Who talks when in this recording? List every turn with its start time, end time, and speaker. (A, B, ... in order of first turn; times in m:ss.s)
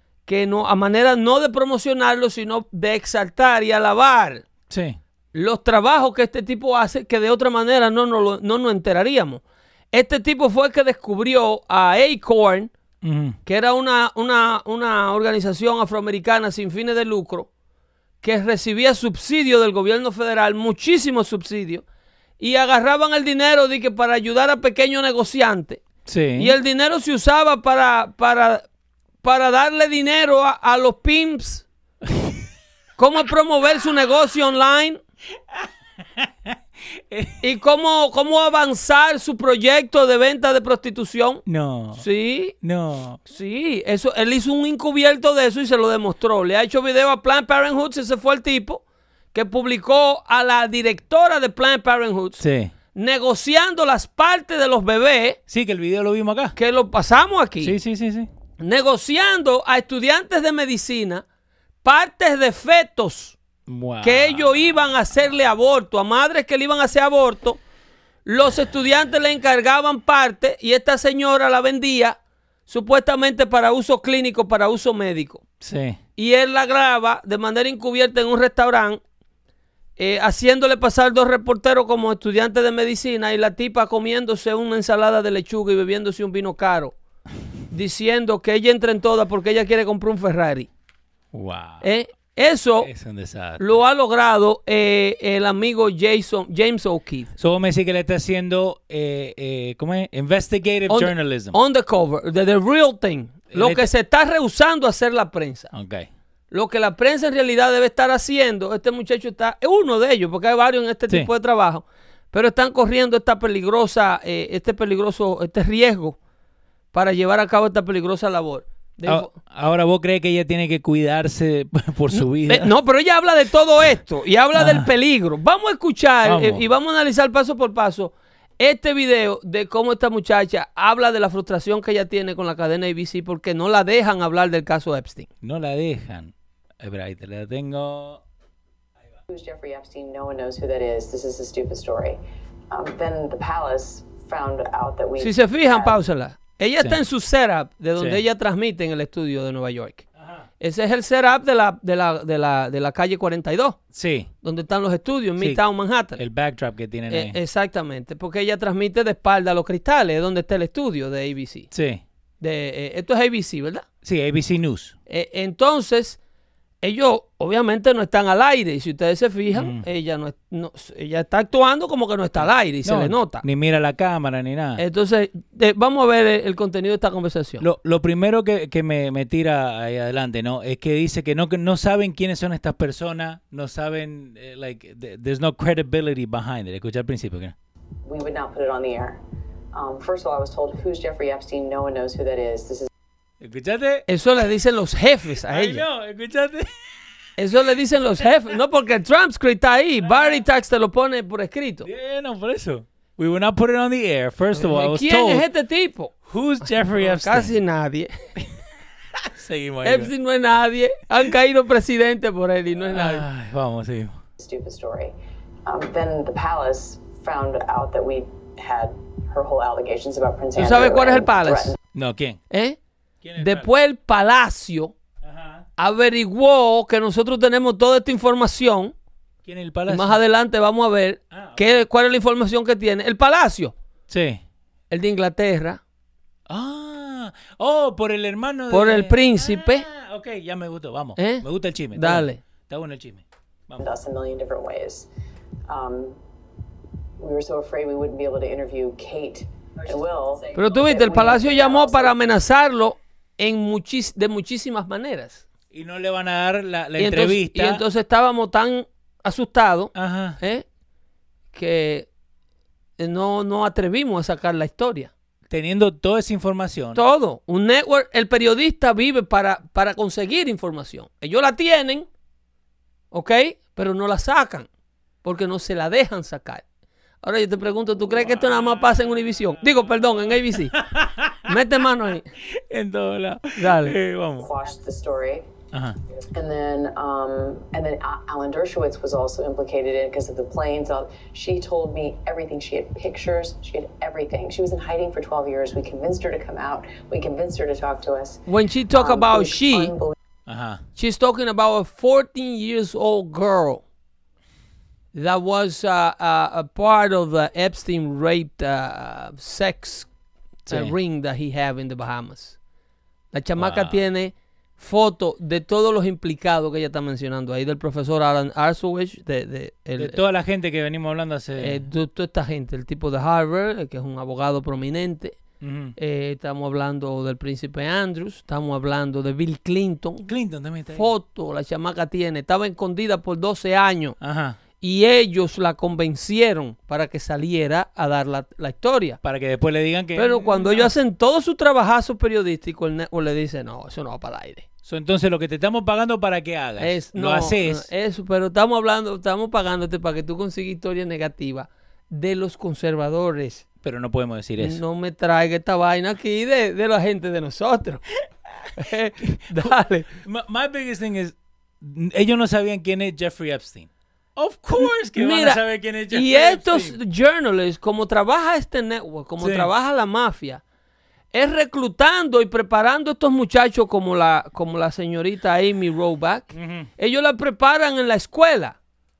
0:00.3-0:04.4 A
0:04.7-0:05.0 B
0:05.3-0:09.4 A
0:09.9-0:12.7 A
0:13.0-0:13.4 B
0:13.4-0:17.5 A
0:18.2-0:21.8 A
0:22.4-0:25.8 A
0:26.0-0:26.5 B
0:26.4-0:28.6 A
0:29.2-0:31.6 A
0:33.0-0:35.0 A
0:35.5-0:36.6 B
0:37.1-0:37.4 B
0:37.4-0:41.4 A
0:41.4-0:42.0 B
0:41.9-0:42.5 A
0:42.6-0:43.2 B
0:43.2-0:48.8 A
0:49.3-0:52.4 A
0:52.4-0:52.7 B
0:52.9-0:55.4 A
0:55.5-0:56.5 B
0:56.6-0:57.7 A
0:57.6-0:58.3 B
0:58.6-1:01.2 A
1:01.8-1:03.4 A
1:03.7-1:04.6 B
1:04.0-1:07.6 A
1:08.2-1:15.4 A
1:15.6-1:16.0 B
1:16.2-1:19.0 A
1:20.0-1:26.9 A
1:27.7-1:30.7 A
1:31.3-1:31.8 B
1:31.8-1:32.9 A
1:32.8-1:33.6 B
1:33.6-1:37.3 A
1:37.4-1:41.6 B
1:40.9-1:45.7 A
1:43.5-1:43.9 B
1:45.7-1:46.1 B
1:46.5-1:56.2 A
1:56.9-1:59.3 A
1:59.0-2:02.7 B
2:02.1-2:15.3 A
2:04.6-2:04.9 B
2:06.2-2:06.6 B
2:15.4-2:18.2 B
2:19.3-2:22.2 C
2:22.7-2:26.0 C
2:25.2-2:30.0 A
2:28.0-2:28.2 B
2:30.2-2:30.4 B
2:30.6-2:33.8 A
2:33.9-2:34.3 B
2:34.4-2:36.2 A
2:36.1-2:37.4 B
2:37.1-2:41.7 A
2:41.7-2:42.0 B
2:42.4-2:43.8 A
2:44.0-2:45.0 B
2:45.1-2:46.2 A
2:46.8-2:53.4 A
2:49.5-2:49.8 B
2:52.8-2:54.8 B
2:54.8-2:57.6 A
2:57.6-3:07.5 B
3:08.0-3:09.2 C
3:09.7-3:12.9 C
3:13.4-3:14.0 B
3:14.1-3:15.8 A
3:15.5-3:16.9 B
3:17.4-3:21.9 A
3:20.0-3:20.4 B
3:21.8-3:25.4 B
3:24.5-3:26.1 A
3:26.2-3:27.5 B
3:26.7-3:28.1 A
3:29.2-3:30.1 B
3:29.8-3:33.2 A
3:32.9-3:34.2 B
3:34.4-3:35.1 C
3:35.6-3:41.7 C
3:40.6-3:41.7 A
3:41.9-3:42.4 B
3:42.5-3:42.8 A
3:43.2-3:43.7 B
3:43.4-3:44.9 A
3:45.2-3:45.6 B
3:45.8-3:48.9 A
3:49.4-3:50.2 B
3:49.9-3:53.7 A
3:51.3-3:51.8 B
3:54.1-3:54.4 B
3:54.9-3:55.8 A
3:56.5-4:03.8 B
3:58.7-3:59.8 A
4:01.2-4:02.4 A
4:03.8-4:05.1 C
4:05.7-4:06.2 C
4:07.2-4:12.1 C
4:10.5-4:15.4 A
4:15.7-4:17.8 B
4:17.0-4:20.6 A
4:19.9-4:20.4 B
4:21.5-4:22.1 A
4:23.0-4:25.1 A
4:25.5-4:27.0 B
4:26.9-4:32.1 A
4:33.1-4:34.7 A
4:35.2-4:36.6 A
4:37.2-4:40.7 A
4:38.3-4:38.8 B
4:40.5-4:41.5 B
4:41.4-4:42.2 A
4:42.5-4:44.5 B
4:43.6-4:44.0 A
4:44.4-4:45.4 C
4:45.7-4:46.0 B
4:46.3-5:00.1 C
4:58.5-4:59.9 A
5:00.5-5:00.8 B
5:01.0-5:03.8 A
5:05.1-5:10.1 A
5:10.7-5:10.9 B
5:10.7-5:12.6 A
5:13.3-5:20.2 A
5:13.6-5:14.0 B
5:20.0-5:21.8 B
5:21.6-5:25.4 A
5:25.6-5:25.9 B
5:26.0-5:30.3 A
5:30.2-5:31.1 B
5:30.9-5:34.2 A
5:34.2-5:34.6 B
5:34.8-5:39.2 A
5:39.2-5:40.9 B
5:40.2-5:44.6 A
5:44.8-5:47.9 B
5:46.8-5:53.6 A
5:53.8-5:54.8 B
5:54.6-5:58.0 A
5:58.8-6:00.1 A
5:59.2-6:07.0 B
6:04.8-6:10.6 A
6:09.4-6:09.7 B
6:11.3-6:18.8 A
6:16.5-6:16.9 B